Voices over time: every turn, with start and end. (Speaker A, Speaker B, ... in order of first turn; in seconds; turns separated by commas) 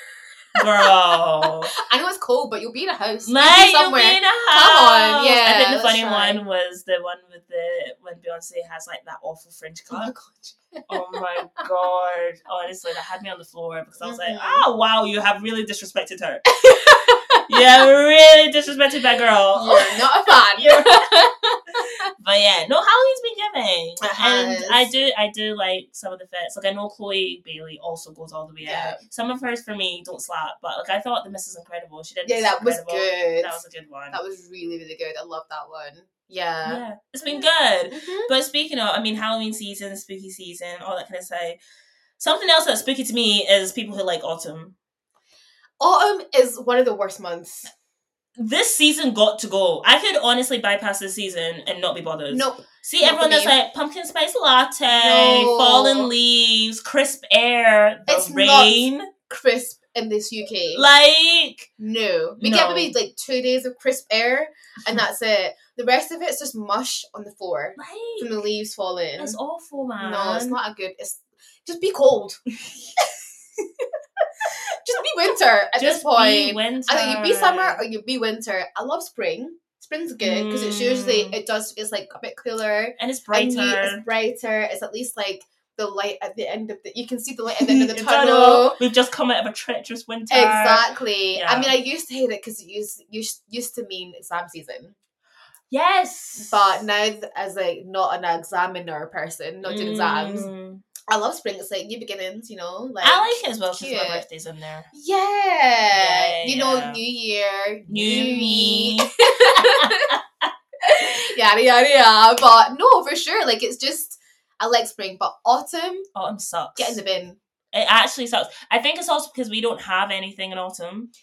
Speaker A: 0.6-1.7, Speaker B: 0.6-6.4, Speaker A: 3.2-10.1, Speaker B: 9.9-10.9, Speaker A: 10.9-16.4, Speaker B: 14.0-14.7, Speaker B: 16.6-17.5, Speaker A: 17.5-20.0, Speaker B: 19.6-21.9, Speaker A: 20.6-21.0, Speaker A: 22.2-34.2, Speaker B: 24.0-24.9, Speaker B: 28.6-29.0, Speaker B: 32.2-33.6, Speaker B: 34.1-38.3, Speaker A: 36.6-41.6, Speaker A: 42.2-44.8, Speaker B: 45.8-47.7, Speaker A: 48.4-59.1, Speaker B: 52.3-53.5, Speaker B: 54.9-56.1, Speaker B: 58.1-60.9, Speaker A: 60.7-61.7, Speaker B: 61.8-69.4, Speaker A: 62.4-63.0, Speaker A: 67.8-68.5, Speaker A: 69.2-70.6, Speaker B: 70.0-72.4, Speaker B: 74.4-88.8, Speaker A: 75.8-77.8, Speaker A: 80.2-81.4, Speaker A: 83.0-84.1, Speaker A: 87.6-91.8, Speaker B: 90.3-95.0, Speaker A: 95.7-96.8, Speaker B: 96.4-100.5, Speaker A: 99.6-100.8, Speaker B: 101.1-104.2, Speaker A: 103.0-104.9, Speaker B: 104.9-110.2, Speaker A: 105.9-107.0, Speaker A: 107.9-110.5, Speaker B: 110.8-116.1, Speaker A: 116.2-117.0, Speaker B: 116.8-117.4, Speaker A: 117.7-121.1